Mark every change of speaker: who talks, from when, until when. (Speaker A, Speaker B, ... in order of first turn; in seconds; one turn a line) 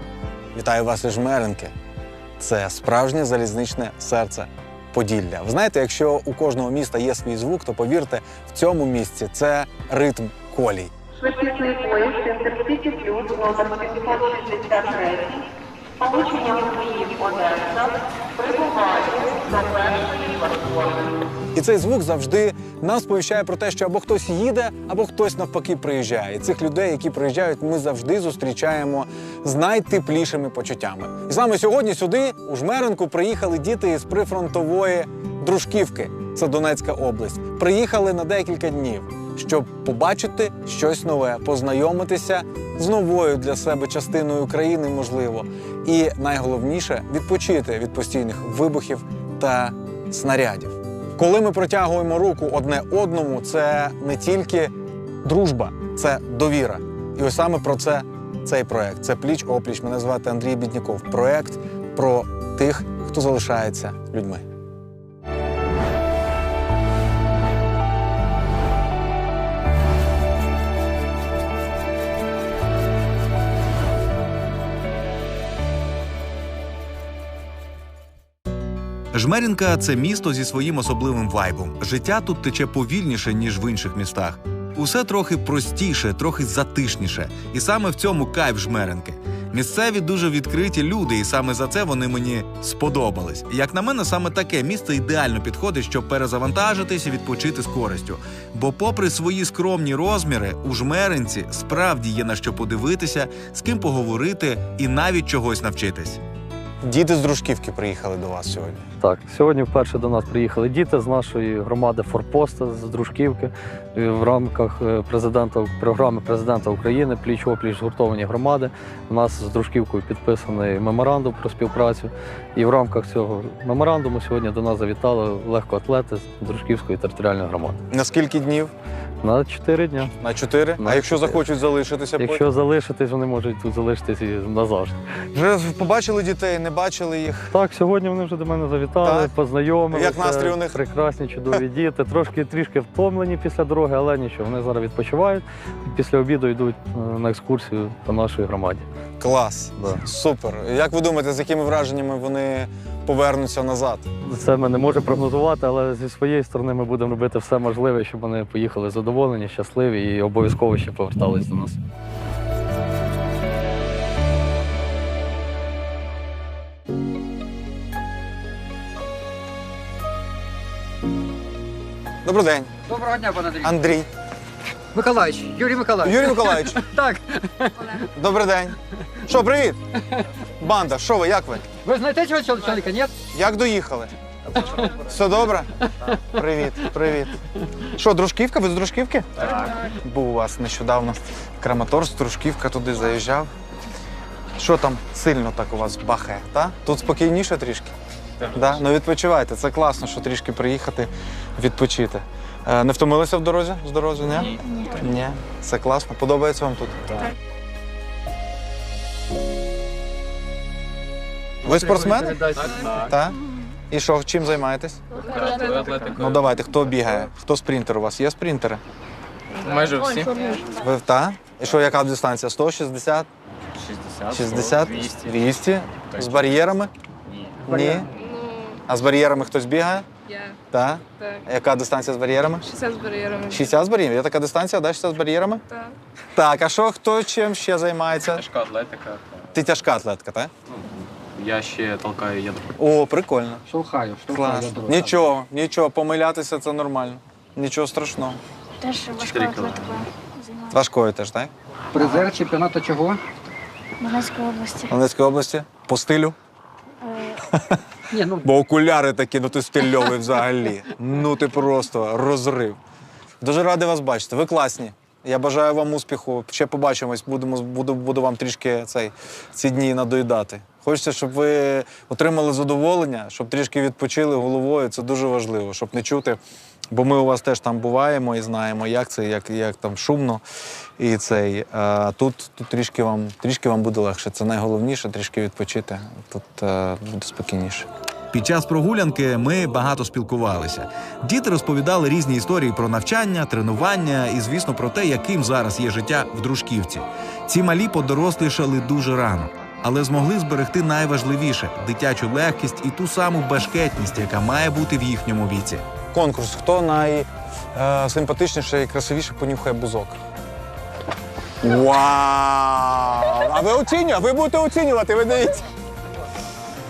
Speaker A: 0.5-1.7
Speaker A: 2.4-10.9
Speaker B: 11.2-14.0
Speaker A: 21.5-54.7
Speaker A: 55.2-64.4
Speaker C: 79.1-106.2
Speaker A: 106.8-108.8
Speaker D: 109.0-127.8
Speaker A: 127.9-128.7
Speaker D: 129.2-130.1
Speaker A: 130.2-132.5
Speaker D: 130.8-131.4
Speaker D: 132.2-135.0
Speaker A: 135.3-137.5
Speaker D: 137.5-148.8
Speaker A: 139.0-139.3
Speaker A: 139.9-140.8
Speaker A: 149.2-154.1
Speaker D: 154.2-161.8
Speaker A: 172.2-172.7
Speaker E: 172.9-173.7
Speaker A: 173.6-174.1
Speaker E: 174.9-178.0
Speaker A: 176.0-176.8
Speaker A: 178.0-179.8
Speaker A: 180.6-181.7
Speaker E: 181.8-183.2
Speaker A: 183.3-187.4
Speaker A: 187.9-193.5
Speaker A: 194.6-197.9
Speaker A: 198.5-207.3
Speaker F: 204.4-205.0
Speaker A: 211.6-213.4
Speaker G: 212.6-212.8
Speaker A: 213.9-215.0
Speaker G: 215.2-216.2
Speaker A: 216.1-218.8
Speaker G: 219.6-220.6
Speaker H: 219.7-220.1
Speaker A: 220.8-223.3
Speaker H: 223.9-224.8
Speaker A: 224.3-226.9
Speaker A: 227.6-228.1
Speaker E: 227.7-228.1
Speaker G: 228.2-228.8
Speaker A: 228.9-230.1
Speaker G: 230.2-230.6
Speaker A: 230.7-232.7
Speaker G: 231.2-231.4
Speaker G: 232.6-233.7
Speaker A: 233.5-235.6
Speaker G: 235.7-235.9
Speaker A: 236.3-238.5
Speaker H: 238.4-239.2
Speaker A: 239.5-240.5
Speaker H: 241.3-242.7
Speaker A: 242.8-243.6
Speaker E: 243.7-245.2
Speaker A: 244.3-248.4
Speaker F: 248.8-250.8
Speaker H: 249.2-249.7
Speaker A: 250.7-251.5
Speaker E: 251.9-253.2
Speaker F: 254.0-254.9
Speaker A: 254.9-256.4
Speaker F: 257.0-257.4
Speaker A: 257.5-257.8
Speaker E: 258.1-258.4
Speaker A: 258.4-262.8
Speaker A: 263.4-276.4
Speaker A: 276.9-280.4
Speaker A: 281.0-287.9
Speaker C: 288.3-305.8
Speaker A: 306.1-310.2
Speaker A: 311.6-315.7